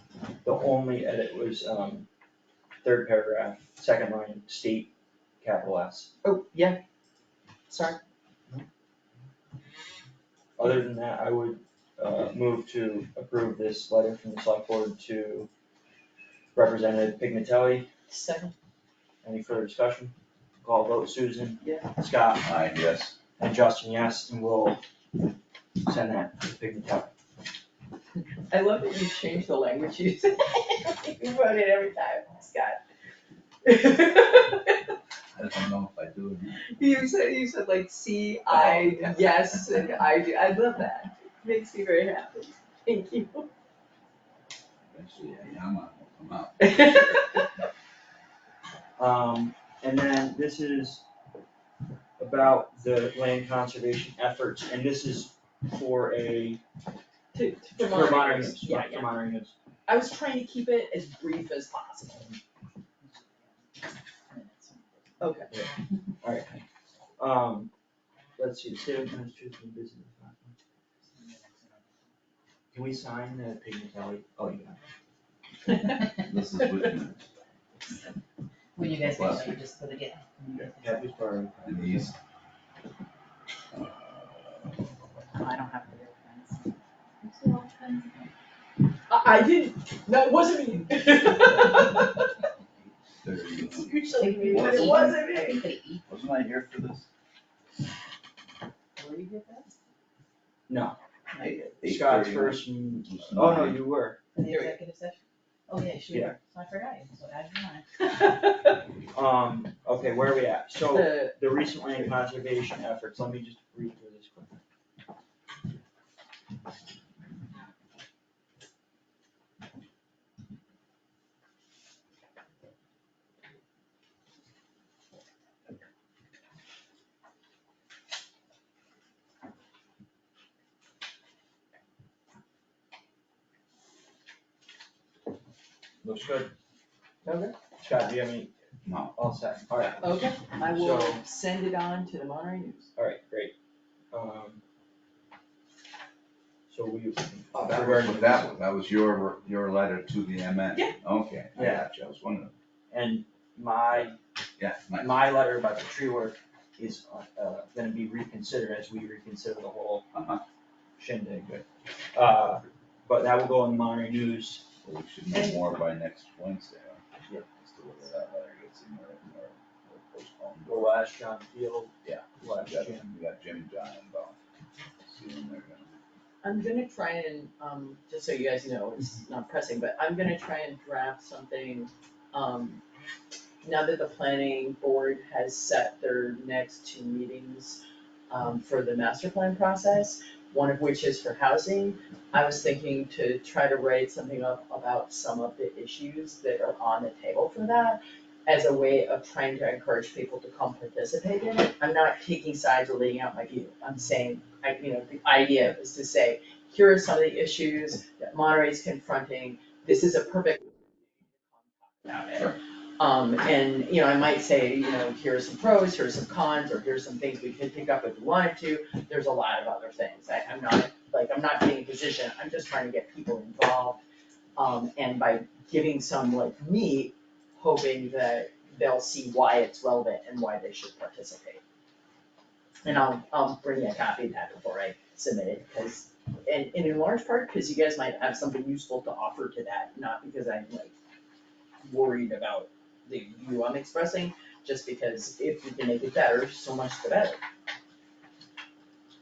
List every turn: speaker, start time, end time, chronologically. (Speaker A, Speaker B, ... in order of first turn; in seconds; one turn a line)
Speaker A: 0.4-2.1
Speaker A: 2.8-6.1
Speaker B: 6.2-6.8
Speaker B: 7.7-8.0
Speaker A: 10.6-15.5
Speaker A: 16.6-17.9
Speaker B: 18.1-18.5
Speaker A: 19.2-22.5
Speaker B: 21.6-21.9
Speaker C: 22.4-23.2
Speaker A: 23.4-24.8
Speaker A: 25.8-27.1
Speaker B: 28.5-32.8
Speaker B: 33.6-34.8
Speaker C: 35.3-36.7
Speaker B: 36.7-43.5
Speaker C: 38.5-39.6
Speaker C: 44.9-47.0
Speaker B: 46.6-47.2
Speaker A: 49.0-51.0
Speaker A: 52.2-56.6
Speaker B: 57.3-59.1
Speaker A: 57.8-59.5
Speaker B: 59.9-62.3
Speaker D: 63.0-63.7
Speaker D: 64.3-65.3
Speaker B: 65.2-65.5
Speaker A: 66.2-66.6
Speaker A: 67.2-67.7
Speaker A: 68.4-70.5
Speaker D: 71.0-72.1
Speaker A: 72.7-74.8
Speaker C: 76.2-77.3
Speaker D: 78.8-81.4
Speaker C: 79.0-79.6
Speaker A: 80.8-82.1
Speaker C: 81.7-82.1
Speaker C: 83.7-84.9
Speaker D: 85.3-88.3
Speaker B: 89.1-92.3
Speaker C: 93.2-95.2
Speaker B: 93.7-95.7
Speaker D: 94.1-96.0
Speaker C: 96.1-97.1
Speaker D: 99.0-99.7
Speaker A: 100.7-101.0
Speaker D: 101.3-101.7
Speaker C: 101.4-103.8
Speaker A: 101.8-104.2
Speaker D: 104.3-108.2
Speaker B: 104.5-104.8
Speaker A: 106.1-106.4
Speaker A: 109.1-114.6
Speaker B: 110.9-111.4
Speaker A: 136.0-136.5
Speaker B: 137.2-137.6
Speaker A: 137.8-138.5
Speaker C: 138.8-139.2
Speaker A: 139.1-141.2
Speaker B: 140.0-142.9
Speaker A: 143.0-143.5
Speaker A: 144.1-144.6
Speaker A: 146.7-148.5
Speaker C: 147.6-152.6
Speaker A: 151.6-151.9
Speaker A: 152.9-154.2
Speaker C: 153.9-155.2
Speaker A: 155.0-160.1
Speaker C: 160.1-160.4
Speaker A: 161.0-164.7
Speaker C: 164.8-170.9
Speaker A: 170.7-173.1
Speaker C: 172.0-174.4
Speaker C: 175.0-176.0
Speaker B: 176.4-182.8
Speaker B: 183.6-224.0
Speaker B: 224.6-231.6
Speaker B: 232.8-240.9
Speaker B: 241.8-247.4